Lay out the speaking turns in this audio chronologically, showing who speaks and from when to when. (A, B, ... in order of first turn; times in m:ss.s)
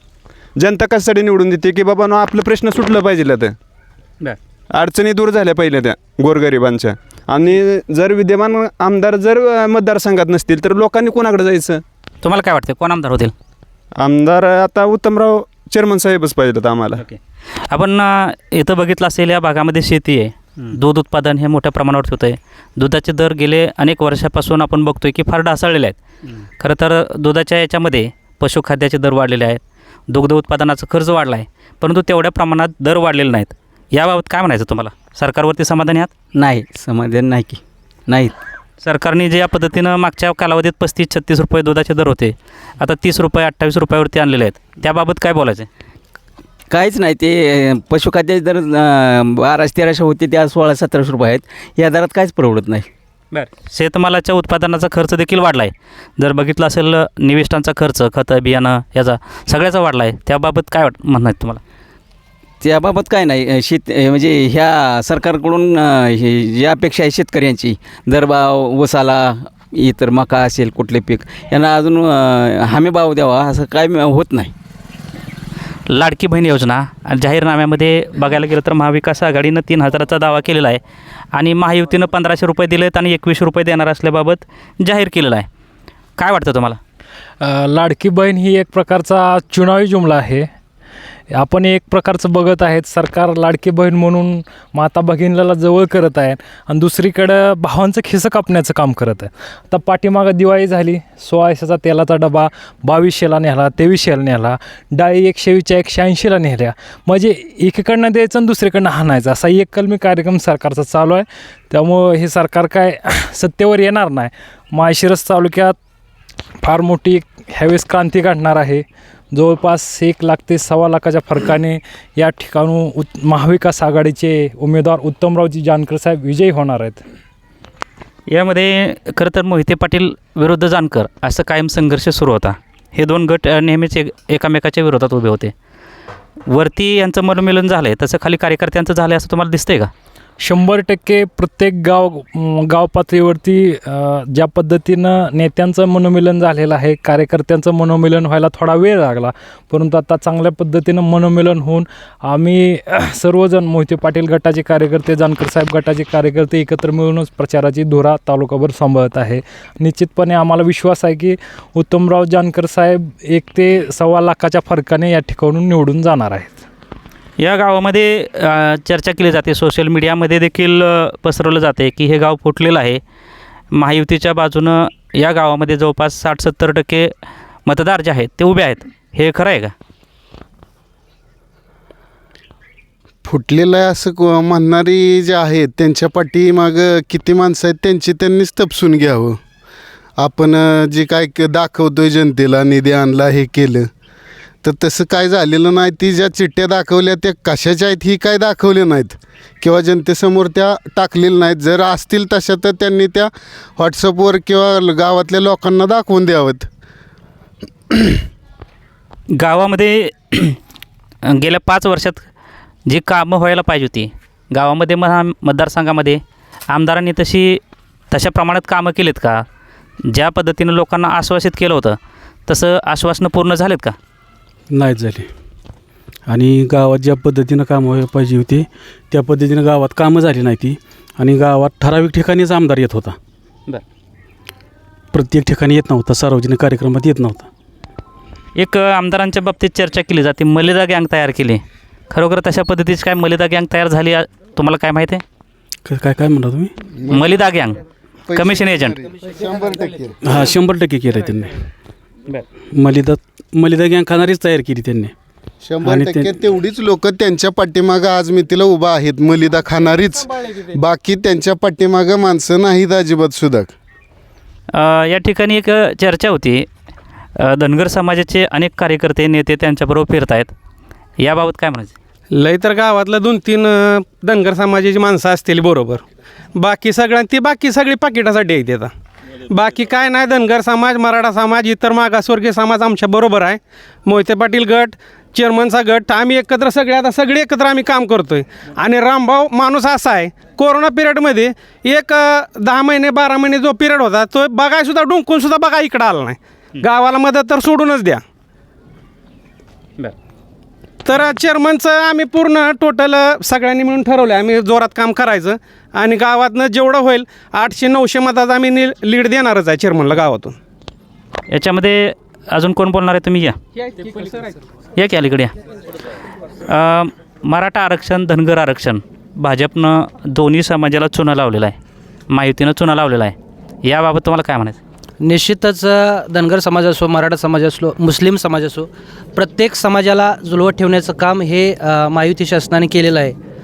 0:00.6-0:03.6 A
0:04.7-0:11.8 A
0:12.2-0:13.3 B
0:14.0-0:17.0 A
0:17.7-0:26.0 B
0:26.6-0:36.1 B
0:36.3-0:38.3 C
0:38.8-0:45.7 B
0:46.7-0:52.9 C
0:53.3-1:01.6 B
1:02.6-1:14.5 C
1:15.9-1:20.8 B
1:21.3-1:25.5 B
1:26.2-1:26.8 B
1:27.4-1:30.5 D
1:31.3-1:55.7 D
1:56.6-2:07.0 D
2:08.3-2:15.5 B
2:16.5-2:19.9 B
2:20.4-2:46.6 D
2:47.4-2:53.0 B
2:53.7-2:57.1 B
2:57.6-2:59.7 B
3:03.2-3:09.4 E
3:10.2-3:13.9 E
3:14.6-3:26.7 E
3:29.3-3:30.6 B
3:31.2-3:32.2 B
3:32.9-3:39.4 B
3:40.0-3:43.9 B
3:44.7-3:45.3 F
3:46.3-3:53.2 F
3:55.1-3:57.5 F
3:58.6-4:05.2 B
4:05.8-4:06.7 F
4:07.0-4:07.3 E
4:07.1-4:07.8 B
4:08.3-4:10.2 E
4:08.3-4:09.0 B
4:10.2-4:11.6 F
4:12.7-4:15.1 F
4:15.6-4:23.7 E
4:15.8-4:16.3 F
4:24.7-4:26.7 B
4:27.4-4:30.5 B
4:31.2-4:31.9 B
4:32.3-4:36.0 G
4:36.6-4:38.9 G
4:39.5-4:58.2 G
5:01.0-5:10.6 G
5:11.5-5:13.6 B
5:13.8-5:14.6 G
5:15.0-5:15.5 B
5:16.7-5:21.8 B
5:22.3-5:24.8 B
5:25.2-5:33.3 H